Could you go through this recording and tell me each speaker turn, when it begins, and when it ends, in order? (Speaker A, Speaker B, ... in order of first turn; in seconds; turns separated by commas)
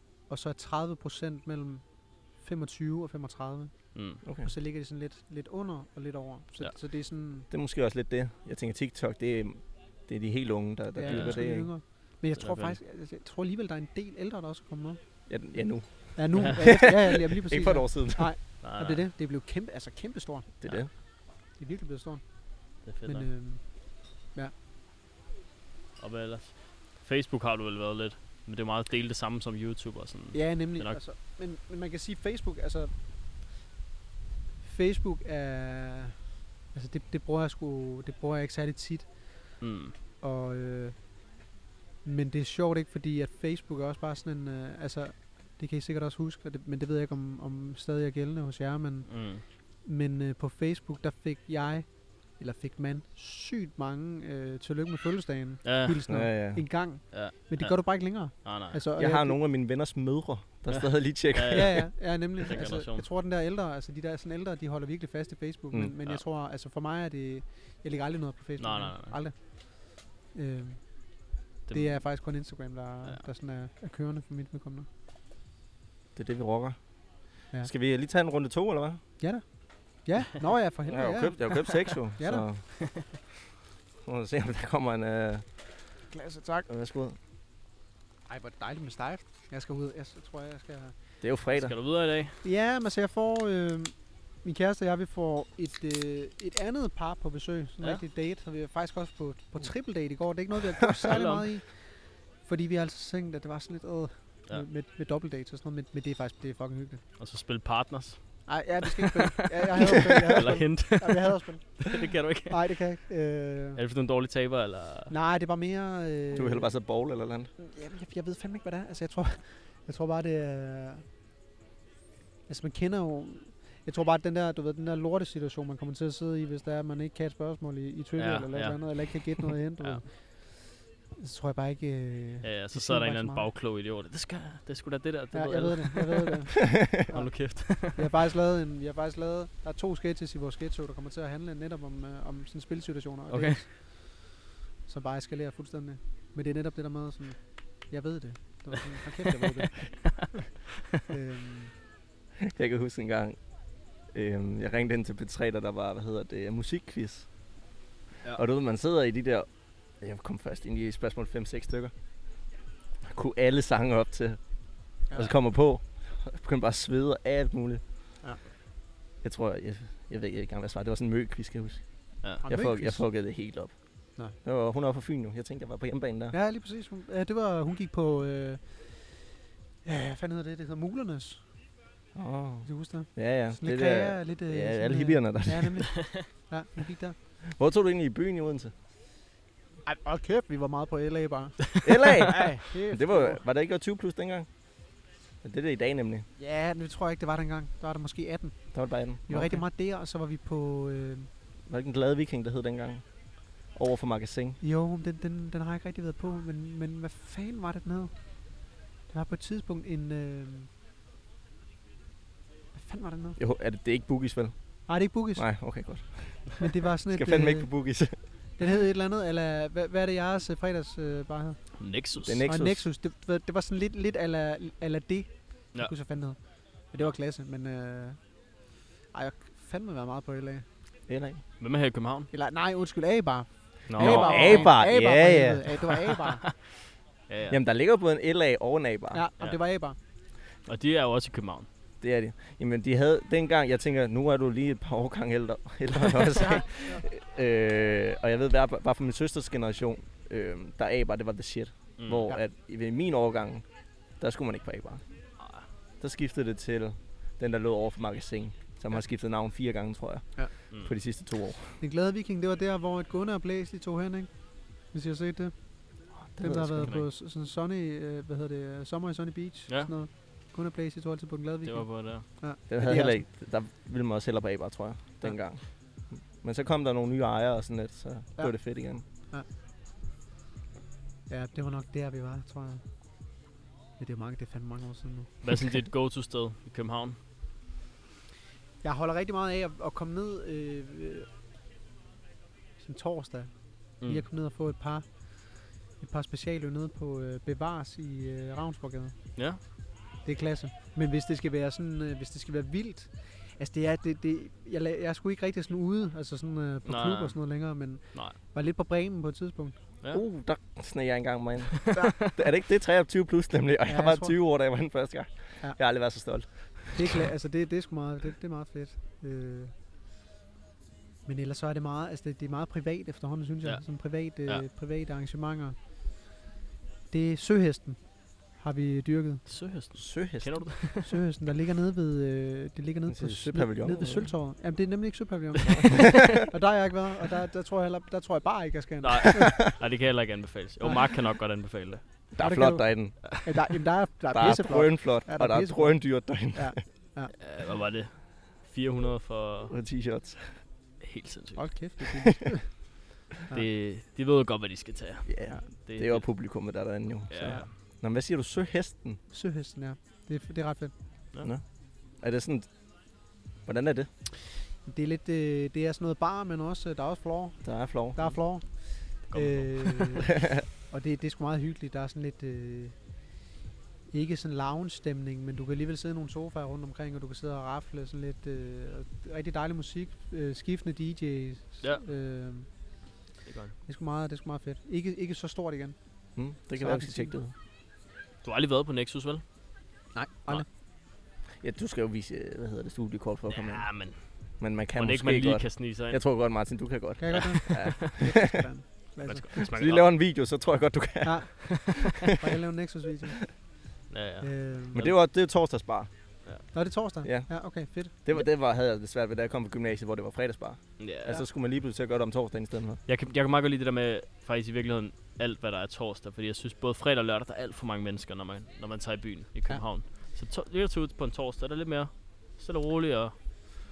Speaker A: 0.3-7.5, Speaker B: 4.0-4.2, Speaker C: 4.2-4.5, Speaker C: 7.5-11.7, Speaker A: 11.0-15.0, Speaker B: 11.1-11.6, Speaker B: 12.4-12.8, Speaker C: 15.3-18.3, Speaker A: 16.1-20.7, Speaker B: 18.6-19.0, Speaker C: 20.6-20.9, Speaker A: 21.5-22.3, Speaker B: 22.9-23.3, Speaker A: 23.1-24.5, Speaker B: 26.0-31.0, Speaker A: 30.3-32.9, Speaker A: 34.6-39.3, Speaker B: 39.6-40.0, Speaker A: 40.2-41.1, Speaker A: 42.0-59.4, Speaker B: 49.1-49.4, Speaker B: 55.6-56.0, Speaker C: 56.1-56.6, Speaker B: 57.1-58.8, Speaker C: 59.0-61.8, Speaker B: 60.7-63.0, Speaker A: 61.5-71.1, Speaker B: 68.6-69.2, Speaker B: 71.7-72.0, Speaker A: 71.7-74.9, Speaker C: 76.2-76.8, Speaker C: 77.6-79.0, Speaker A: 79.2-82.5, Speaker C: 80.8-82.7, Speaker C: 84.0-85.5, Speaker A: 86.1-86.7, Speaker C: 86.7-87.2, Speaker A: 88.3-91.0, Speaker C: 91.2-91.8, Speaker B: 91.5-92.4, Speaker A: 92.4-107.0, Speaker B: 101.1-101.5, Speaker B: 107.2-112.7, Speaker A: 108.5-113.8, Speaker B: 113.8-115.1, Speaker A: 115.1-116.7, Speaker C: 116.3-117.5, Speaker A: 117.6-121.0, Speaker A: 122.5-133.5, Speaker B: 128.2-130.0, Speaker B: 132.4-138.1, Speaker A: 135.3-144.0, Speaker B: 143.3-143.6, Speaker A: 144.9-150.4, Speaker B: 149.4-150.3, Speaker A: 151.1-151.7, Speaker C: 152.4-153.4, Speaker C: 154.1-157.3, Speaker C: 158.3-159.5, Speaker C: 160.0-161.9, Speaker C: 163.0-164.4, Speaker C: 165.1-167.8, Speaker C: 169.2-171.8, Speaker A: 172.4-173.1, Speaker C: 172.4-173.8, Speaker C: 174.4-176.3, Speaker A: 176.3-179.3, Speaker A: 179.8-181.4, Speaker C: 182.2-185.9, Speaker A: 182.7-187.2, Speaker C: 187.4-188.7, Speaker A: 189.9-193.4, Speaker C: 191.8-194.5, Speaker C: 195.4-196.3, Speaker A: 196.4-198.7, Speaker C: 198.7-199.6, Speaker A: 199.3-201.3, Speaker C: 201.7-203.0, Speaker C: 203.6-204.6, Speaker A: 204.6-208.1, Speaker A: 209.1-210.7, Speaker A: 212.7-213.4, Speaker C: 213.4-214.5, Speaker A: 214.9-215.5, Speaker C: 215.4-218.2, Speaker A: 216.6-217.7, Speaker A: 218.6-221.8, Speaker B: 221.8-222.4, Speaker C: 222.2-222.9, Speaker A: 222.4-228.2, Speaker A: 229.1-230.7, Speaker C: 231.1-231.4, Speaker B: 231.6-232.3, Speaker A: 232.3-236.4, Speaker B: 233.9-234.7, Speaker C: 234.0-235.7, Speaker B: 237.3-237.6, Speaker C: 237.5-239.2, Speaker A: 239.1-240.0, Speaker B: 240.7-241.7, Speaker C: 242.0-253.7, Speaker A: 246.4-247.0, Speaker B: 252.0-252.2, Speaker C: 254.2-255.0, Speaker B: 255.4-255.7, Speaker C: 256.0-261.8, Speaker A: 261.8-265.8, Speaker C: 266.2-266.9, Speaker A: 266.4-273.2, Speaker B: 266.8-267.1, Speaker B: 271.7-272.3, Speaker C: 272.7-279.0, Speaker A: 278.4-278.7, Speaker A: 279.2-279.5, Speaker A: 281.3-282.8, Speaker A: 284.0-285.4, Speaker B: 285.4-287.2, Speaker A: 288.8-291.3, Speaker A: 292.8-299.2, Speaker B: 299.4-299.6, Speaker A: 300.2-309.8, Speaker B: 306.9-307.4, Speaker C: 310.1-317.0, Speaker B: 311.9-312.3, Speaker A: 313.9-314.3, Speaker A: 316.9-319.7, Speaker A: 321.3-325.8, Speaker A: 327.1-329.4, Speaker B: 329.5-331.1, Speaker C: 330.0-330.6, Speaker A: 331.0-339.6, Speaker C: 333.1-334.3, Speaker B: 335.7-336.1, Speaker B: 339.0-342.0, Speaker A: 340.8-341.2, Speaker C: 342.3-343.2, Speaker A: 342.4-347.3, Speaker C: 344.3-346.8, Speaker B: 347.4-349.7, Speaker C: 349.7-350.6, Speaker B: 351.0-351.7, Speaker A: 351.6-352.8, Speaker B: 353.5-356.4, Speaker C: 355.3-359.2, Speaker B: 357.3-357.8, Speaker A: 359.3-360.9, Speaker C: 361.4-362.7, Speaker C: 363.6-364.1, Speaker A: 364.9-373.0, Speaker C: 367.6-368.2, Speaker B: 369.2-370.2, Speaker C: 370.4-370.6, Speaker A: 374.1-382.7, Speaker B: 383.4-383.8, Speaker A: 383.9-386.0, Speaker C: 386.4-387.5, Speaker A: 386.8-387.4, Speaker B: 388.4-389.4, Speaker A: 390.1-390.7, Speaker C: 391.6-394.0, Speaker B: 393.5-396.2, Speaker C: 394.6-398.6, Speaker A: 397.2-399.6, Speaker B: 397.3-398.1, Speaker B: 399.2-400.1, Speaker C: 399.6-401.7, Speaker A: 401.2-403.5, Speaker B: 401.7-402.1, Speaker B: 404.1-405.1, Speaker A: 404.4-405.1, Speaker C: 404.9-406.1, Speaker A: 406.7-408.4, Speaker C: 407.2-407.7, Speaker C: 408.2-413.0, Speaker B: 411.0-411.4, Speaker B: 413.1-423.6